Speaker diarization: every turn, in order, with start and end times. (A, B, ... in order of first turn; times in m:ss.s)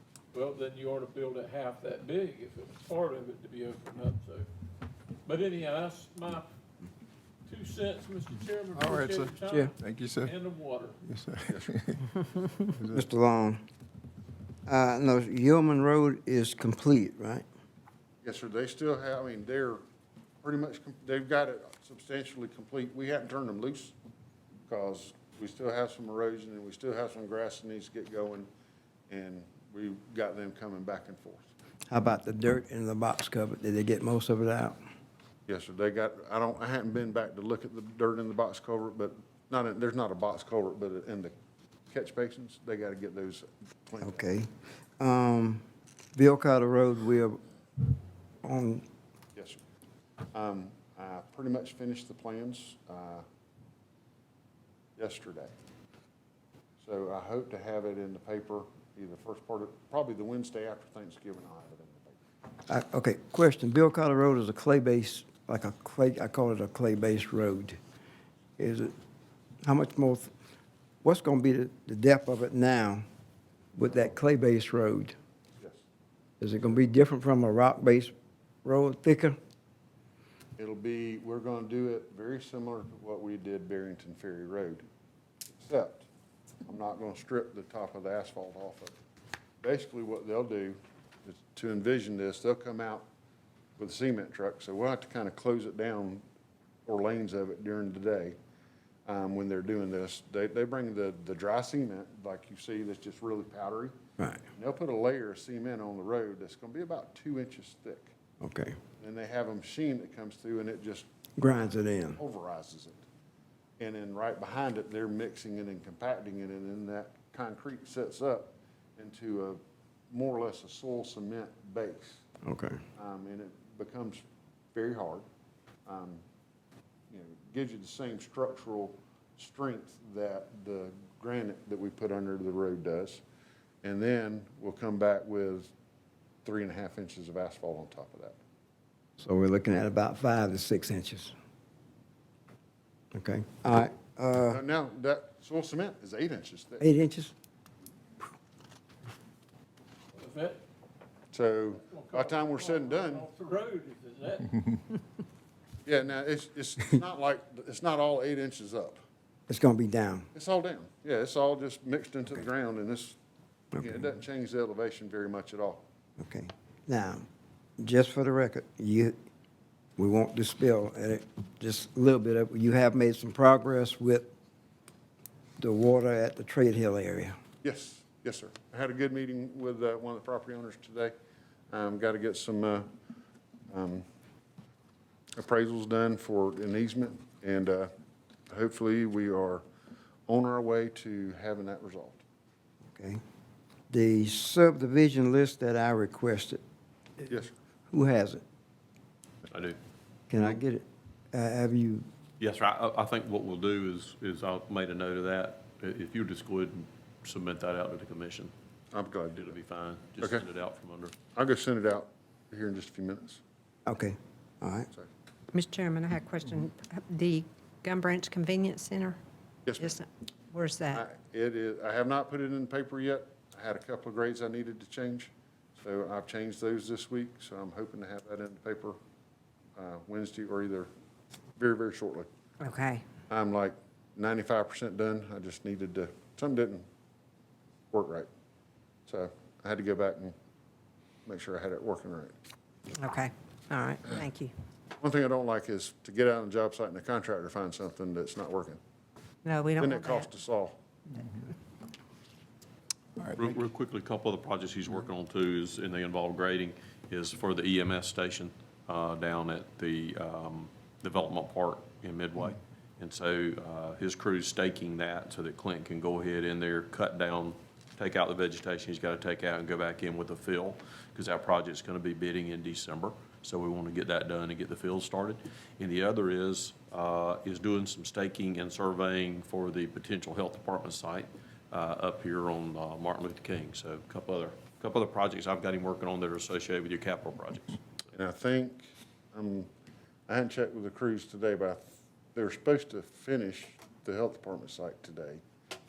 0:00.3-0:04.5 A
0:05.2-0:06.5 A
0:07.4-0:11.0 A
0:08.7-0:10.3 B
0:11.0-0:13.0 B
0:12.9-0:13.6 C
0:14.7-0:17.4 C
0:18.2-0:19.8 D
0:20.4-0:23.9 D
0:24.7-0:28.5 D
0:29.1-0:31.5 D
0:31.9-0:34.8 C
0:35.5-0:41.3 D
0:41.9-0:44.2 D
0:44.0-0:45.6 C
0:46.2-0:47.4 C
0:48.4-0:48.8 C
0:49.3-0:49.6 D
0:50.3-0:53.2 D
0:55.0-0:55.5 D
0:56.8-1:02.2 D
1:02.7-1:07.8 C
1:08.6-1:08.9 C
1:09.6-1:10.3 C
1:11.0-1:13.0 C
1:13.7-1:15.1 C
1:16.4-1:18.1 C
1:18.6-1:19.4 C
1:20.6-1:24.8 D
1:25.5-1:26.1 D
1:26.6-1:28.9 D
1:29.6-1:33.0 D
1:33.8-1:36.2 D
1:36.8-1:38.4 D
1:39.0-1:44.0 D
1:44.5-1:48.1 D
1:48.4-1:48.8 C
1:49.0-1:51.0 D
1:51.4-1:52.2 C
1:52.2-1:53.0 D
1:53.8-2:02.2 D
2:02.4-2:02.8 C
2:03.0-2:04.2 D
2:04.7-2:05.2 D
2:05.8-2:06.2 D
2:07.1-2:13.2 D
2:13.8-2:15.7 D
2:16.4-2:18.4 D
2:19.2-2:21.3 C
2:23.1-2:24.6 C
2:24.5-2:26.8 D
2:26.8-2:27.3 C
2:30.1-2:30.6 A
2:31.3-2:33.2 D
2:31.8-2:34.6 A
2:35.8-2:39.0 D
2:39.5-2:40.3 C
2:40.3-2:43.2 D
2:43.7-2:44.0 C
2:43.8-2:45.8 D
2:46.2-2:47.2 C
2:47.8-2:49.1 C
2:50.0-2:54.3 C
2:55.6-2:57.4 C
2:57.6-3:01.1 D
3:01.7-3:02.9 D
3:03.7-3:04.0 D
3:05.4-3:07.9 D
3:08.5-3:09.6 D
3:10.3-3:12.2 D
3:12.9-3:13.2 C
3:13.9-3:16.6 C
3:17.9-3:18.4 C
3:19.5-3:19.8 E
3:20.3-3:22.0 C
3:22.4-3:28.5 E
3:28.9-3:29.5 D
3:29.3-3:31.1 E
3:30.2-3:30.4 D
3:31.3-3:33.4 D
3:33.8-3:34.9 C
3:35.5-3:39.2 F
3:39.6-3:40.0 D
3:39.8-3:41.0 F
3:40.9-3:49.0 D
3:49.8-3:50.9 D
3:51.6-3:52.3 D
3:52.6-3:53.0 F
3:53.3-3:56.8 D
3:57.9-3:58.3 D
3:59.1-4:00.3 D
4:01.2-4:02.3 D
4:03.0-4:04.5 F
4:05.0-4:08.8 D
4:09.4-4:10.3 F
4:09.8-4:10.8 D
4:11.2-4:11.4 B
4:13.2-4:13.5 B
4:13.3-4:47.8 E
4:48.1-4:49.7 D
4:50.3-4:55.4 D